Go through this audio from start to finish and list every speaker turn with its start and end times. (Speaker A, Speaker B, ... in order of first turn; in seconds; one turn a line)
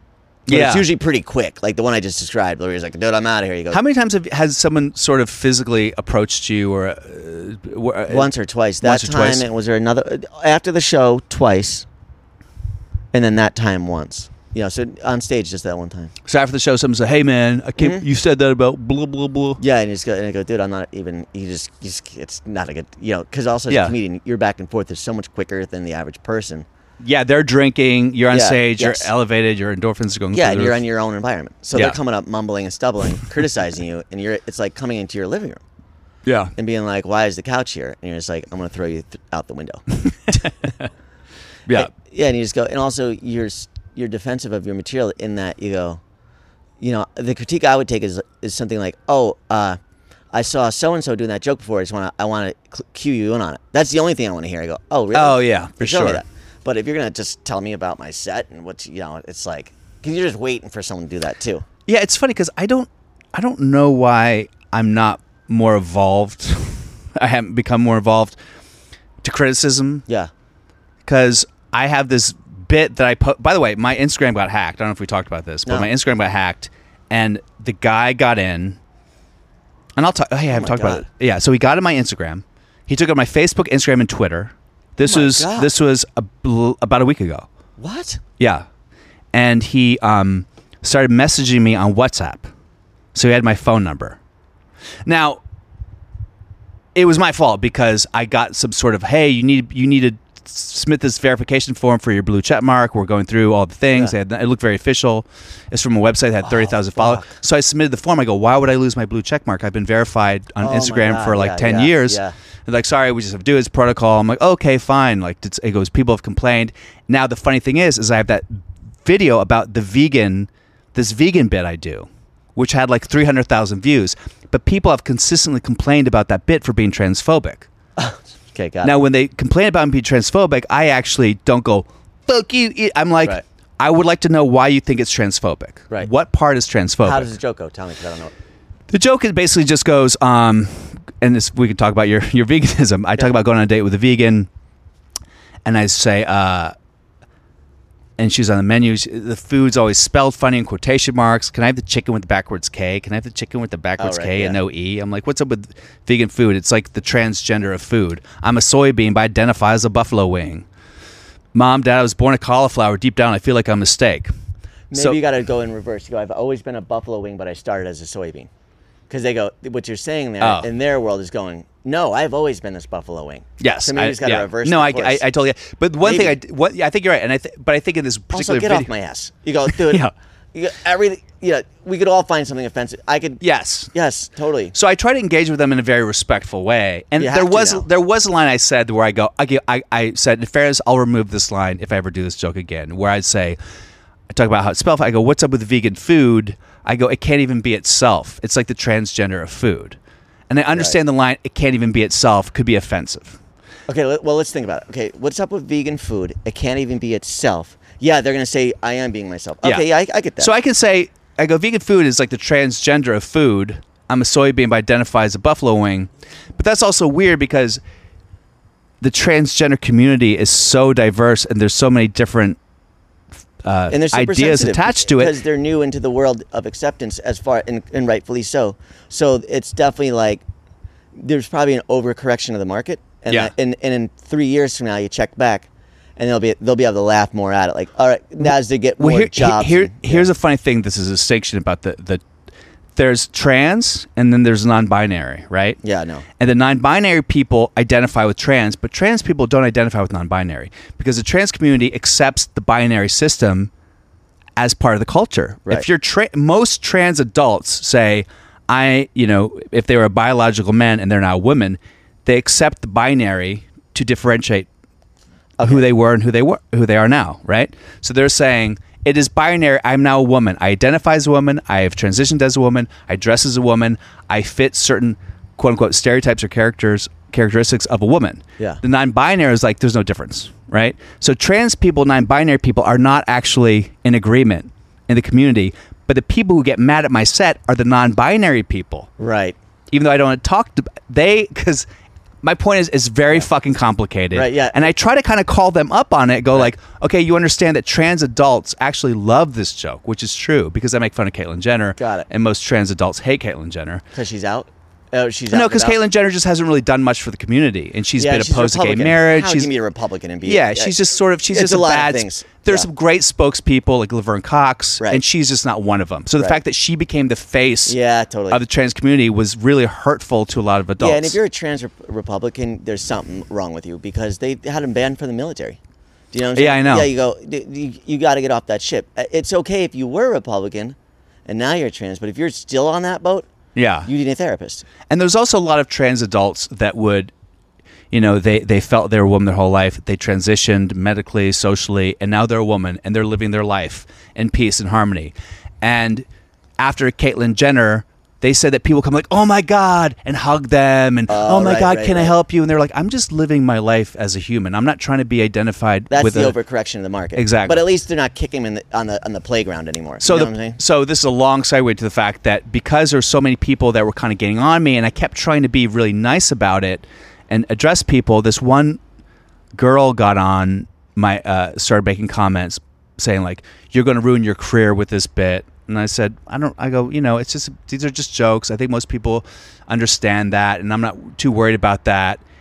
Speaker A: 0.5-0.9
Speaker B: 0.5-3.8
Speaker A: 3.7-9.5
Speaker B: 8.1-11.9
Speaker B: 13.1-16.1
Speaker A: 16.2-19.6
Speaker B: 17.8-18.0
Speaker B: 19.6-26.7
Speaker A: 23.7-23.9
Speaker A: 27.0-30.8
Speaker B: 28.3-29.1
Speaker B: 30.3-35.6
Speaker A: 31.7-32.0
Speaker A: 36.2-36.5
Speaker B: 36.6-40.5
Speaker B: 41.7-46.0
Speaker B: 46.8-49.8
Speaker B: 50.3-61.6
Speaker A: 55.1-56.2
Speaker A: 61.9-68.4
Speaker A: 69.2-70.0
Speaker A: 71.0-78.8
Speaker A: 80.0-87.5
Speaker B: 80.5-81.0
Speaker B: 85.0-85.7
Speaker B: 87.8-88.2
Speaker A: 88.4-88.7
Speaker A: 89.3-92.5
Speaker A: 93.1-94.2
Speaker A: 95.0-95.4
Speaker A: 97.0-127.7
Speaker B: 106.4-107.3
Speaker B: 110.6-112.3
Speaker B: 128.0-128.9
Speaker A: 128.8-137.3
Speaker B: 137.0-138.3
Speaker A: 138.9-144.5
Speaker A: 145.7-146.7
Speaker A: 148.2-160.7
Speaker B: 154.0-154.6
Speaker A: 161.5-164.3
Speaker B: 164.9-168.5
Speaker B: 169.1-175.2
Speaker A: 170.4-170.7
Speaker A: 173.6-178.9
Speaker B: 176.0-176.4
Speaker B: 178.3-184.7
Speaker A: 179.7-180.1
Speaker A: 183.4-183.9
Speaker A: 184.7-193.6
Speaker B: 187.2-187.8
Speaker A: 194.3-200.0
Speaker A: 200.5-203.4
Speaker B: 203.9-210.5
Speaker A: 210.4-217.8
Speaker A: 219.0-222.6
Speaker A: 223.6-225.4
Speaker B: 223.9-230.4
Speaker B: 231.2-240.3
Speaker A: 239.0-242.2
Speaker A: 243.0-245.8
Speaker B: 245.8-246.2
Speaker A: 246.4-253.7
Speaker A: 254.6-264.7
Speaker A: 265.6-289.1
Speaker B: 289.2-289.6
Speaker A: 289.9-291.9
Speaker A: 292.4-304.0
Speaker B: 294.3-294.9
Speaker B: 302.0-302.3
Speaker B: 304.1-306.0
Speaker A: 305.5-309.7
Speaker B: 308.2-312.9
Speaker A: 310.4-317.9
Speaker B: 317.9-318.6
Speaker A: 318.5-321.4
Speaker B: 321.0-325.8
Speaker B: 326.3-333.5
Speaker A: 326.6-327.1
Speaker A: 333.8-334.1
Speaker B: 334.0-334.9
Speaker A: 335.1-337.3
Speaker A: 338.1-346.3
Speaker A: 346.8-356.6
Speaker B: 351.3-352.4
Speaker B: 356.1-360.8
Speaker A: 357.4-357.8
Speaker A: 360.2-369.0
Speaker A: 369.7-382.4